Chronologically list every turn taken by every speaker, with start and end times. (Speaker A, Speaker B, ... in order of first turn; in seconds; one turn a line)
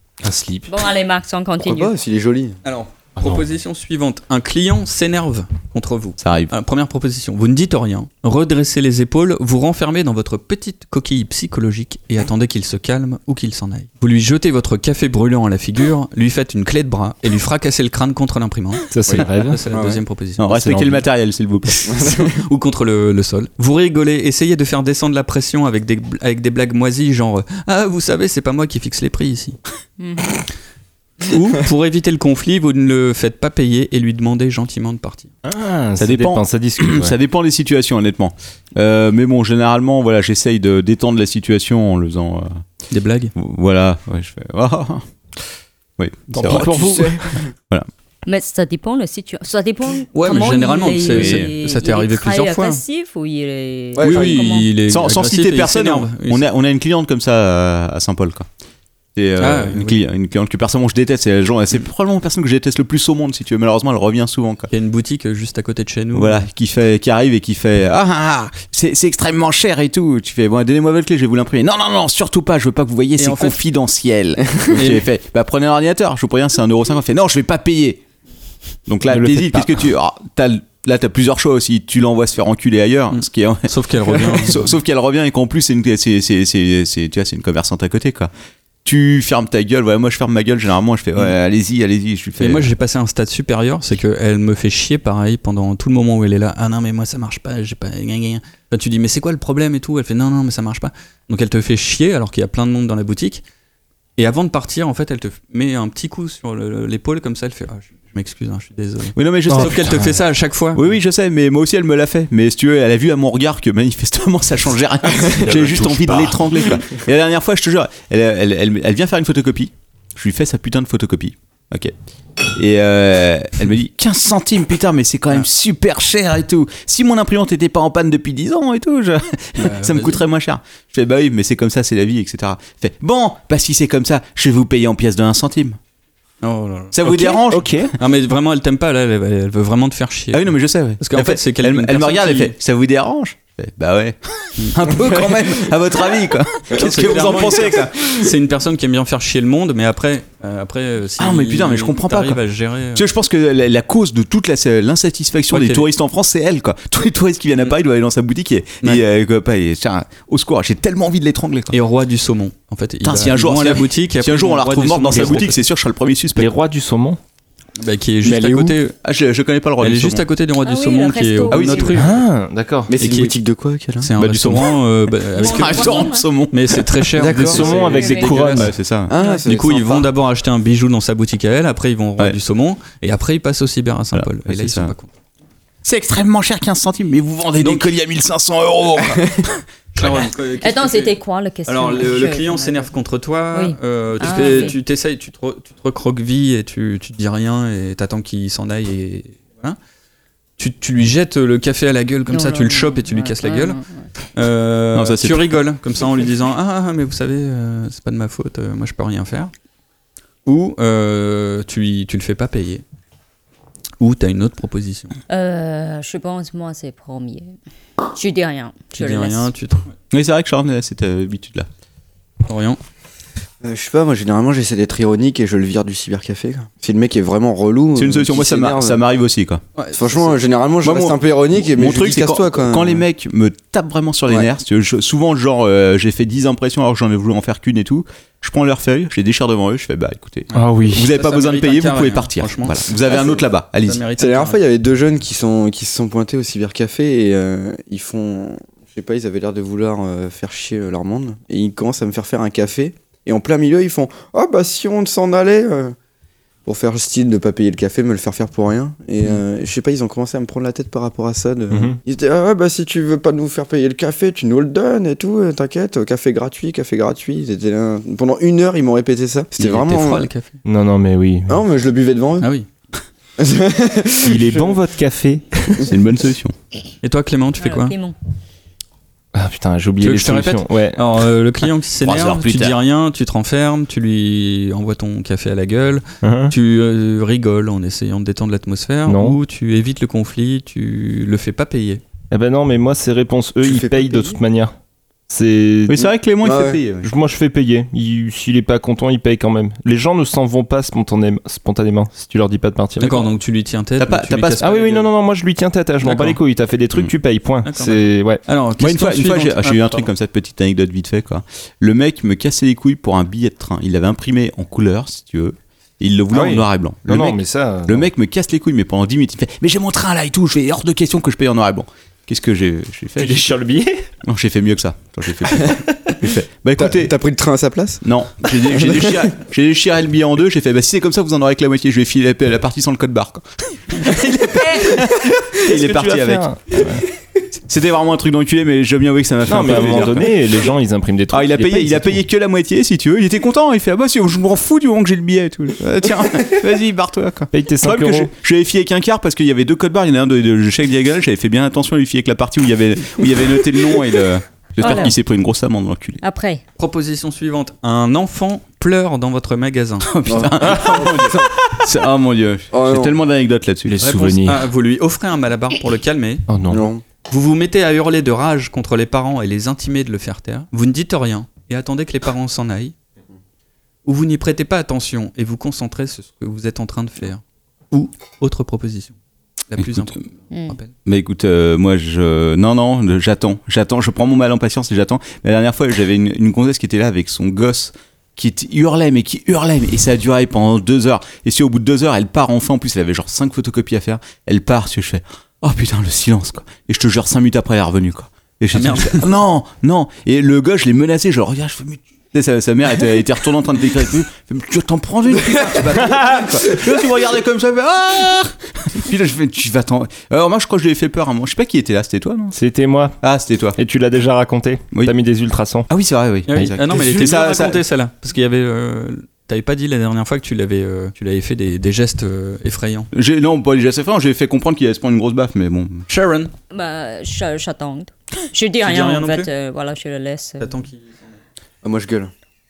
Speaker A: 0.2-0.7
Speaker B: 0.7-1.9
Speaker C: 1.6-2.6
Speaker D: 2.6-21.0
Speaker E: 6.2-6.5
Speaker A: 18.9-19.6
Speaker C: 19.7-20.0
Speaker E: 20.4-22.2
Speaker A: 20.5-21.0
Speaker D: 21.9-29.6
Speaker C: 21.9-22.3
Speaker B: 30.0-30.3
Speaker D: 31.2-35.3
Speaker A: 35.4-37.1
Speaker E: 36.0-42.6
Speaker D: 42.9-43.3
Speaker E: 43.3-45.0
Speaker E: 46.0-47.1
Speaker A: 46.4-47.2
Speaker C: 46.5-47.5
Speaker B: 48.2-54.7
Speaker D: 50.1-52.8
Speaker E: 51.1-51.5
Speaker C: 54.0-54.4
Speaker D: 54.0-56.4
Speaker E: 54.9-58.5
Speaker E: 59.1-64.7
Speaker D: 59.4-60.0
Speaker D: 64.7-66.5
Speaker E: 66.1-78.0
Speaker D: 73.2-73.6
Speaker D: 74.7-75.0
Speaker E: 78.9-88.3
Speaker A: 79.0-79.8
Speaker D: 83.1-84.7
Speaker E: 88.8-92.7
Speaker D: 92.4-103.4
Speaker D: 104.2-110.8
Speaker E: 109.1-110.1
Speaker A: 109.5-110.1
Speaker E: 110.7-121.9
Speaker A: 115.3-116.4
Speaker E: 122.5-135.8
Speaker D: 129.6-130.2
Speaker D: 136.4-137.3
Speaker E: 136.9-137.9
Speaker A: 137.3-137.9
Speaker D: 137.9-142.5
Speaker E: 140.3-148.3
Speaker D: 146.7-153.1
Speaker C: 146.9-147.4
Speaker E: 151.2-152.4
Speaker E: 152.9-161.8
Speaker D: 155.5-155.8
Speaker D: 161.7-165.6
Speaker E: 163.0-166.5
Speaker A: 166.4-167.2
Speaker D: 167.8-168.9
Speaker C: 168.2-168.8
Speaker E: 169.0-170.2
Speaker D: 169.8-172.2
Speaker B: 170.6-172.0
Speaker E: 171.5-172.0
Speaker A: 171.9-172.9
Speaker C: 172.9-174.1
Speaker D: 173.0-173.3
Speaker D: 174.0-178.7
Speaker E: 174.2-174.8
Speaker B: 175.3-176.3
Speaker E: 175.4-177.0
Speaker C: 177.1-177.9
Speaker A: 177.2-178.7
Speaker B: 177.8-178.4
Speaker E: 178.5-179.1
Speaker C: 179.1-180.1
Speaker D: 179.4-185.1
Speaker E: 184.1-184.9
Speaker E: 185.8-190.3
Speaker D: 187.6-187.9
Speaker D: 189.9-199.8
Speaker B: 190.6-192.9
Speaker B: 193.5-194.8
Speaker D: 200.6-203.8
Speaker B: 202.3-204.1
Speaker D: 204.3-209.5
Speaker E: 204.9-205.5
Speaker D: 210.4-212.8
Speaker D: 214.0-215.1
Speaker B: 215.3-217.5
Speaker B: 218.1-219.5
Speaker D: 218.9-219.9
Speaker E: 220.1-221.7
Speaker D: 222.4-222.8
Speaker C: 223.6-229.0
Speaker E: 227.9-229.6
Speaker D: 229.8-230.3
Speaker C: 229.9-233.0
Speaker E: 230.8-244.0
Speaker D: 240.5-242.8
Speaker A: 240.5-241.1
Speaker C: 243.0-243.4
Speaker D: 243.8-244.6
Speaker C: 244.2-255.9
Speaker C: 256.6-270.3
Speaker A: 261.7-262.0
Speaker D: 269.6-270.5
Speaker A: 270.6-271.6
Speaker C: 271.5-272.5
Speaker D: 272.4-272.7
Speaker C: 273.4-274.6
Speaker A: 274.2-275.9
Speaker E: 275.9-276.5
Speaker D: 277.0-277.9
Speaker B: 277.6-278.1
Speaker A: 279.3-281.0
Speaker D: 280.0-292.0
Speaker E: 282.0-282.8
Speaker A: 286.2-286.5
Speaker A: 289.1-289.4
Speaker A: 292.3-294.7
Speaker C: 293.6-294.4
Speaker A: 295.3-296.1
Speaker E: 295.9-297.1
Speaker C: 296.4-296.8
Speaker A: 297.0-303.3
Speaker D: 303.0-305.1
Speaker E: 304.0-304.6
Speaker A: 304.6-308.4
Speaker D: 306.0-306.4
Speaker D: 307.6-310.1
Speaker E: 308.8-323.5
Speaker A: 316.3-318.1
Speaker A: 323.2-324.0
Speaker E: 324.2-327.1
Speaker C: 326.8-329.3
Speaker E: 328.0-336.8
Speaker A: 335.6-337.1
Speaker E: 337.7-340.3
Speaker A: 339.5-342.2
Speaker E: 341.3-356.2
Speaker A: 347.5-348.3
Speaker B: 354.8-355.1
Speaker B: 356.2-356.6
Speaker D: 356.8-360.1
Speaker E: 360.0-364.0
Speaker C: 360.2-361.7
Speaker C: 362.7-363.2
Speaker A: 363.9-364.7
Speaker D: 364.0-366.4
Speaker A: 366.5-366.9
Speaker C: 366.7-367.0
Speaker D: 367.3-372.9
Speaker D: 374.0-379.1
Speaker D: 379.7-380.9
Speaker E: 379.8-380.0
Speaker B: 380.5-380.8
Speaker E: 381.0-412.6
Speaker D: 398.7-399.3
Speaker C: 405.3-407.2
Speaker A: 412.5-413.2
Speaker E: 413.2-413.8
Speaker A: 413.8-415.9
Speaker E: 415.9-417.8
Speaker D: 416.5-423.1
Speaker E: 423.1-426.1
Speaker D: 426.1-426.5
Speaker B: 426.7-430.7
Speaker D: 428.8-429.5
Speaker D: 430.6-431.2
Speaker C: 431.8-432.3